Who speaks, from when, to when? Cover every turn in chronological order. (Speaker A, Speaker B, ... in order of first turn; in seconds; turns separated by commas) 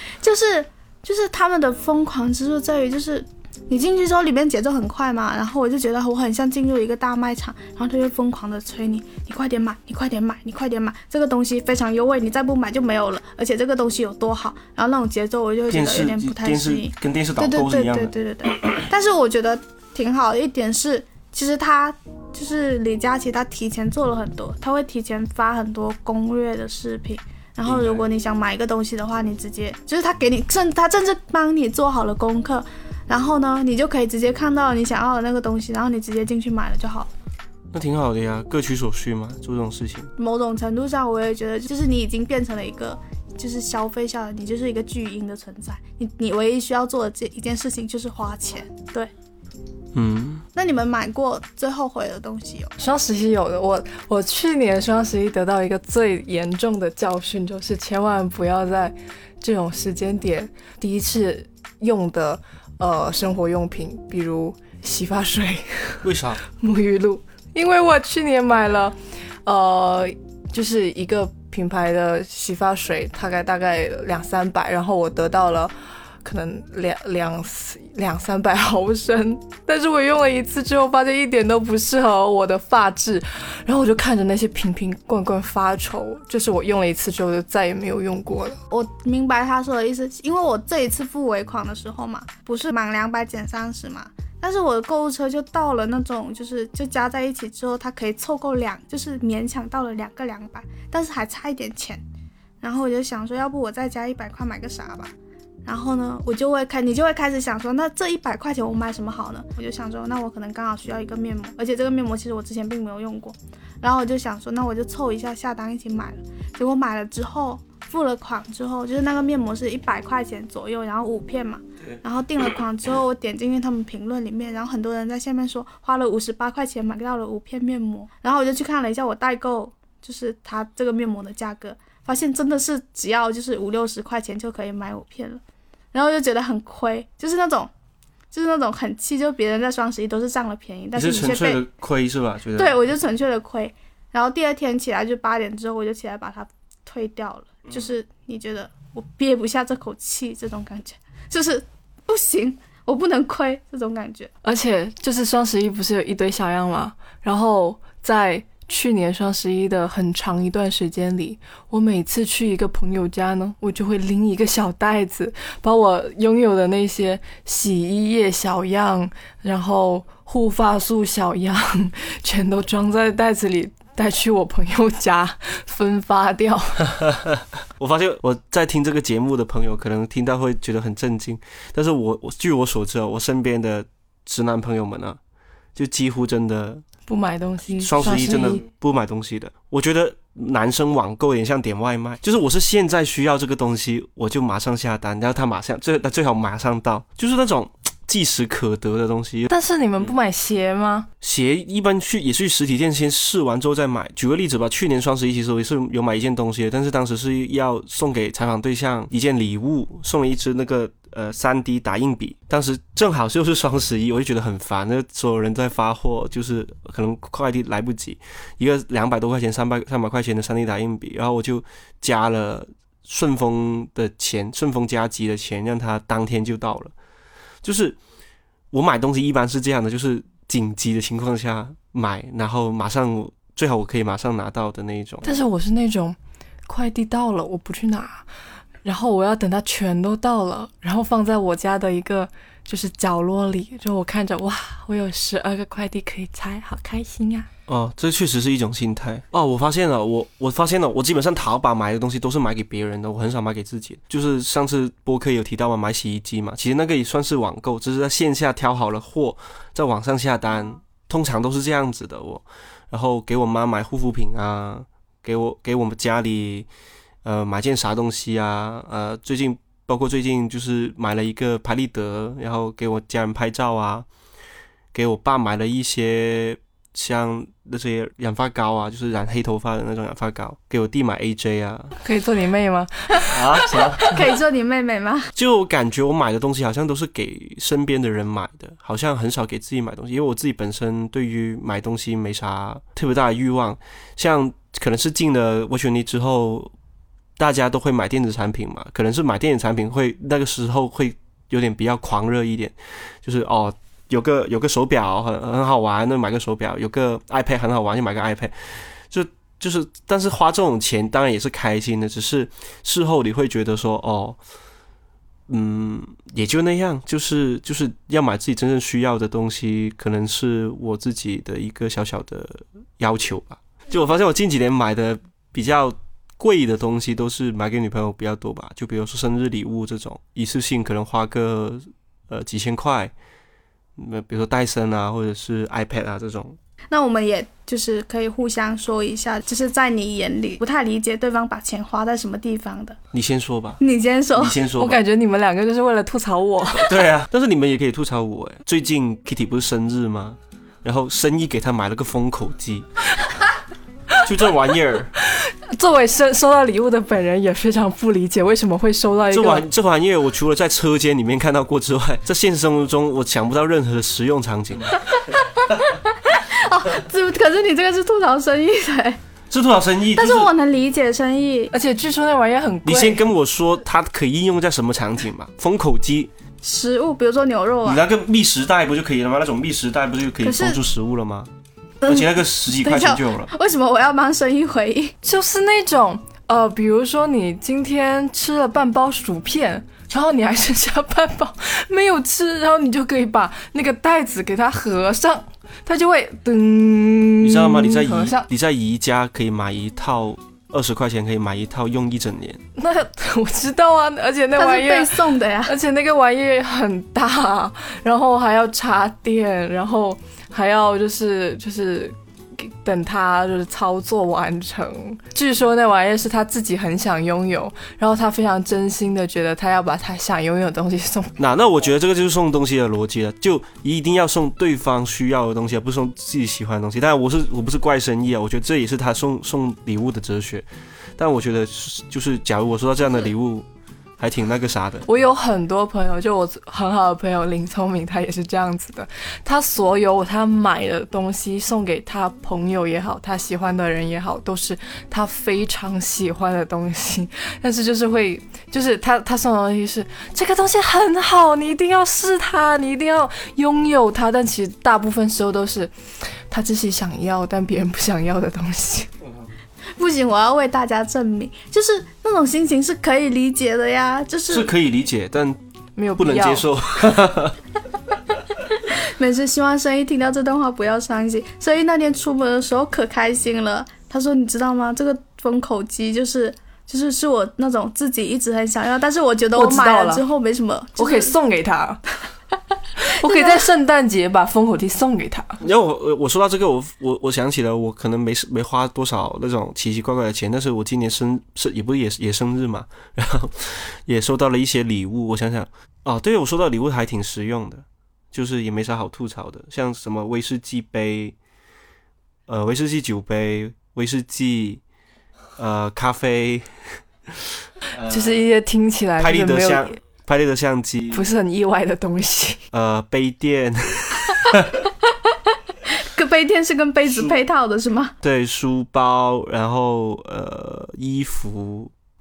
Speaker A: 0.2-37.1, Speaker B: 15.7-18.1, Speaker B: 27.6-28.0, Speaker B: 37.7-40.1, Speaker A: 40.2-49.1, Speaker B: 49.9-50.4, Speaker A: 50.5-52.7, Speaker C: 52.8-88.6, Speaker B: 66.0-66.4, Speaker A: 88.7-102.0, Speaker A: 102.6-135.4, Speaker A: 135.9-137.7, Speaker A: 138.3-141.6, Speaker B: 140.9-142.8, Speaker A: 142.6-154.3, Speaker C: 154.4-177.0, Speaker B: 177.8-185.2, Speaker B: 185.7-186.8, Speaker C: 187.1-188.6, Speaker B: 187.8-200.1, Speaker C: 199.5-201.1, Speaker B: 201.2-226.9, Speaker B: 227.6-228.0, Speaker B: 228.7-235.4, Speaker C: 235.2-238.3, Speaker C: 238.8-247.5, Speaker B: 247.7-266.7, Speaker B: 267.2-274.1, Speaker B: 274.9-281.9, Speaker C: 282.0-284.1, Speaker B: 283.3-284.1, Speaker A: 284.1-285.3, Speaker B: 285.4-296.7, Speaker B: 297.4-314.4, Speaker B: 315.5-333.1, Speaker B: 334.0-336.6, Speaker A: 336.9-343.0, Speaker B: 343.1-343.8, Speaker A: 343.8-344.6, Speaker B: 344.4-345.0, Speaker C: 344.8-347.0, Speaker B: 346.8-352.9, Speaker B: 354.2-355.1, Speaker C: 355.2-359.6, Speaker B: 359.3-365.0, Speaker A: 366.2-369.2, Speaker B: 369.5-370.5, Speaker A: 370.1-371.7, Speaker C: 371.7-373.2, Speaker B: 372.8-376.3, Speaker A: 376.6-378.0, Speaker B: 377.8-381.5, Speaker A: 380.4-380.8, Speaker A: 382.0-385.1, Speaker B: 382.1-383.5, Speaker C: 385.2-398.5, Speaker B: 397.4-402.6, Speaker C: 402.7-421.3, Speaker A: 404.6-405.7, Speaker B: 421.4-430.6, Speaker B: 431.2-433.7, Speaker B: 434.2-435.0, Speaker C: 435.1-459.1, Speaker A: 460.0-464.7, Speaker B: 464.5-465.6, Speaker C: 465.9-466.7, Speaker B: 466.2-467.6, Speaker A: 468.9-481.4, Speaker C: 479.6-480.2, Speaker C: 481.0-482.0, Speaker C: 483.0-485.6, Speaker A: 483.2-483.6, Speaker B: 485.6-501.3, Speaker B: 502.5-504.8, Speaker B: 505.6-508.4, Speaker C: 508.1-510.0, Speaker B: 509.2-511.2, Speaker C: 511.1-512.6, Speaker B: 512.7-514.8, Speaker A: 515.9-518.1, Speaker B: 517.1-517.4, Speaker B: 518.2-521.9